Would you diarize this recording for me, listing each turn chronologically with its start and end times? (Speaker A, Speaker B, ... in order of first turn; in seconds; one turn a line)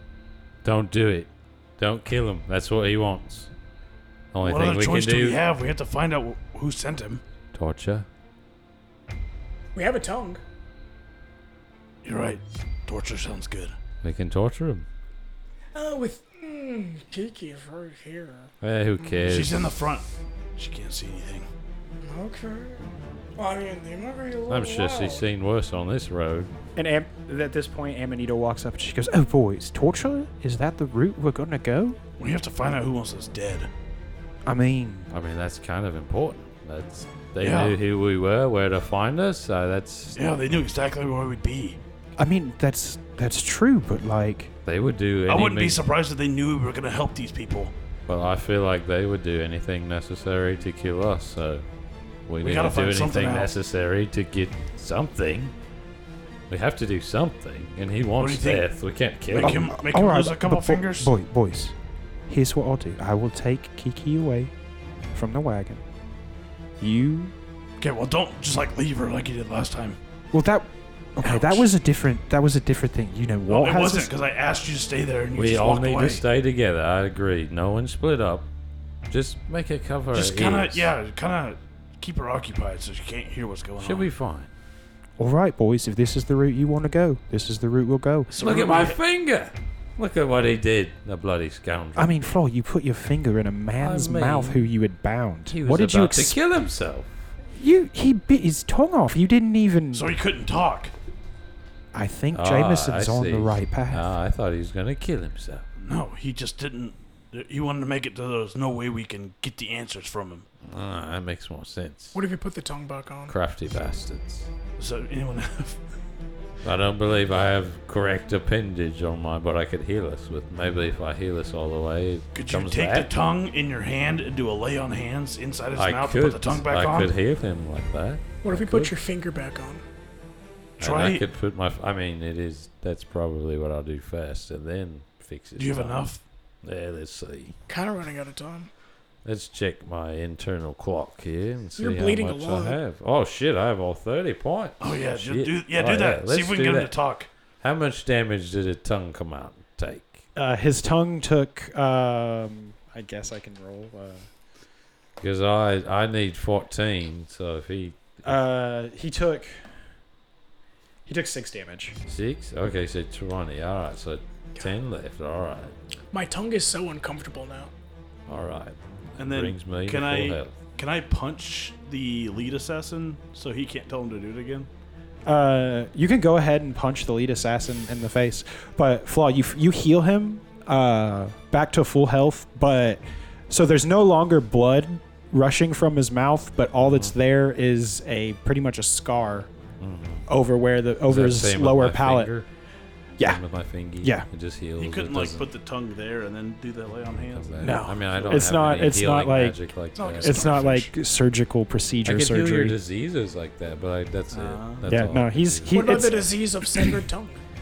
Speaker A: 0.6-3.5
Speaker A: 4.3-5.4
Speaker B: 4.4-7.2
Speaker A: 7.5-8.1
Speaker C: 9.8-10.4
Speaker B: 12.0-13.8
Speaker A: 14.0-14.9
Speaker C: 15.8-18.5
Speaker A: 18.6-19.7
Speaker B: 19.2-20.1
Speaker B: 20.6-21.5
Speaker C: 22.0-25.2
Speaker A: 24.5-26.5
Speaker D: 26.8-32.0
Speaker B: 32.2-33.7
Speaker D: 34.5-35.1
Speaker A: 35.1-40.2
Speaker B: 37.4-37.8
Speaker B: 40.1-41.8
Speaker D: 42.2-44.5
Speaker A: 44.6-45.8
Speaker B: 45.3-47.7
Speaker A: 48.1-51.7
Speaker A: 52.3-55.5
Speaker B: 52.4-53.5
Speaker A: 56.5-59.7
Speaker B: 58.2-58.7
Speaker B: 59.3-61.1
Speaker D: 59.4-61.8
Speaker D: 62.3-64.5
Speaker D: 65.1-65.8
Speaker D: 66.8-67.3
Speaker B: 67.8-70.0
Speaker D: 70.3-74.1
Speaker B: 71.2-71.7
Speaker B: 73.5-76.2
Speaker A: 75.4-78.5
Speaker A: 79.1-80.9
Speaker B: 80.1-84.1
Speaker A: 83.8-84.5
Speaker D: 85.2-88.3
Speaker B: 88.3-89.0
Speaker A: 88.4-92.2
Speaker D: 92.0-96.4
Speaker A: 93.8-94.7
Speaker A: 95.5-97.3
Speaker D: 97.5-100.1
Speaker B: 99.9-100.9
Speaker D: 101.9-104.1
Speaker A: 102.3-105.7
Speaker B: 105.8-110.5
Speaker A: 110.6-112.2
Speaker C: 112.1-113.3
Speaker A: 113.3-114.5
Speaker B: 114.8-115.8
Speaker A: 116.6-123.1
Speaker B: 122.3-127.1
Speaker A: 125.8-128.9
Speaker C: 128.4-129.8
Speaker B: 130.8-131.3
Speaker A: 130.8-136.0
Speaker B: 135.6-136.2
Speaker A: 136.6-137.6
Speaker C: 137.7-138.7
Speaker A: 139.2-146.9
Speaker C: 141.8-142.8
Speaker B: 144.8-147.3
Speaker A: 147.6-150.2
Speaker D: 150.3-154.3
Speaker A: 155.2-158.3
Speaker D: 158.2-159.7
Speaker D: 161.1-162.0
Speaker A: 162.1-165.7
Speaker C: 166.1-167.7
Speaker A: 168.3-170.6
Speaker B: 169.2-174.7
Speaker D: 175.3-189.5
Speaker A: 186.8-187.1
Speaker A: 189.8-190.3
Speaker D: 190.3-192.3
Speaker A: 191.1-192.5
Speaker A: 193.2-195.5
Speaker D: 194.0-194.3
Speaker B: 194.8-198.5
Speaker A: 197.3-200.6
Speaker D: 197.6-199.6
Speaker C: 199.9-200.7
Speaker D: 200.2-202.8
Speaker B: 200.4-200.8
Speaker A: 202.1-205.9
Speaker B: 204.3-204.9
Speaker D: 204.9-206.9
Speaker C: 205.7-207.4